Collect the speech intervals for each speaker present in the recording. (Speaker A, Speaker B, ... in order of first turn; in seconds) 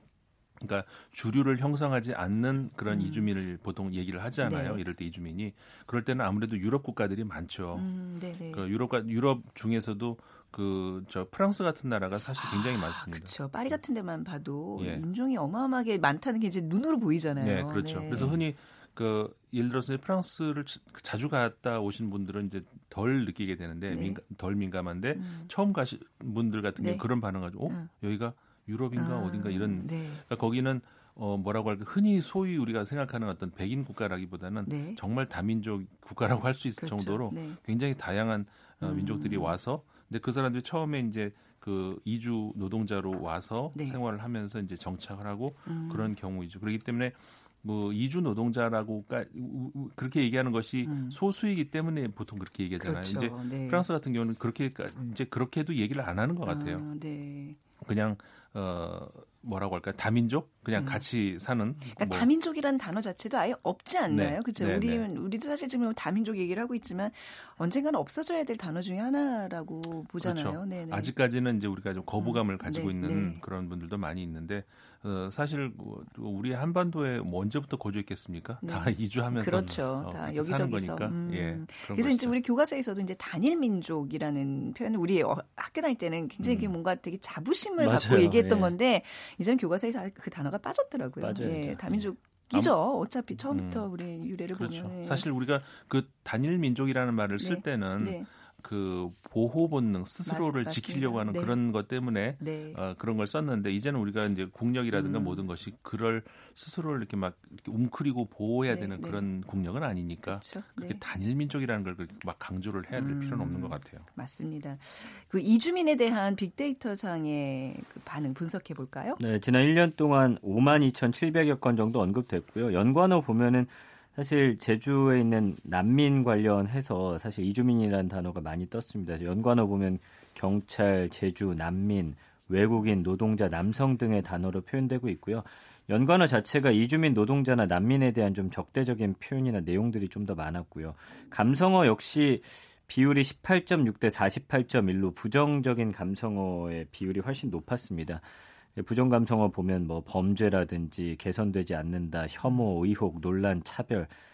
Speaker A: 0.6-7.9, 8.5-13.3, 14.8-15.0, 17.4-56.8, 57.8-62.3, 64.1-65.1, 70.2-82.4, 86.4-86.8, 93.5-93.9, 94.5-114.1
Speaker B: 2.9-3.3, 4.4-4.8, 7.7-8.7, 12.3-18.3, 23.9-24.2, 25.1-25.5, 26.8-27.1, 29.0-30.2, 34.7-35.0, 36.8-37.6, 38.8-39.6, 43.7-44.0, 45.7-46.1, 50.8-51.2, 52.8-53.9, 56.5-57.6, 60.8-61.0, 61.9-71.1, 72.2-73.4, 78.6-95.3, 97.4-98.3, 100.3-101.6, 102.4-102.8, 104.9-105.4, 108.7-109.3, 110.3-111.0, 112.9-119.2
Speaker C: 18.1-18.4, 87.8-88.8, 91.2-91.9, 119.2-148.2, 148.8-154.1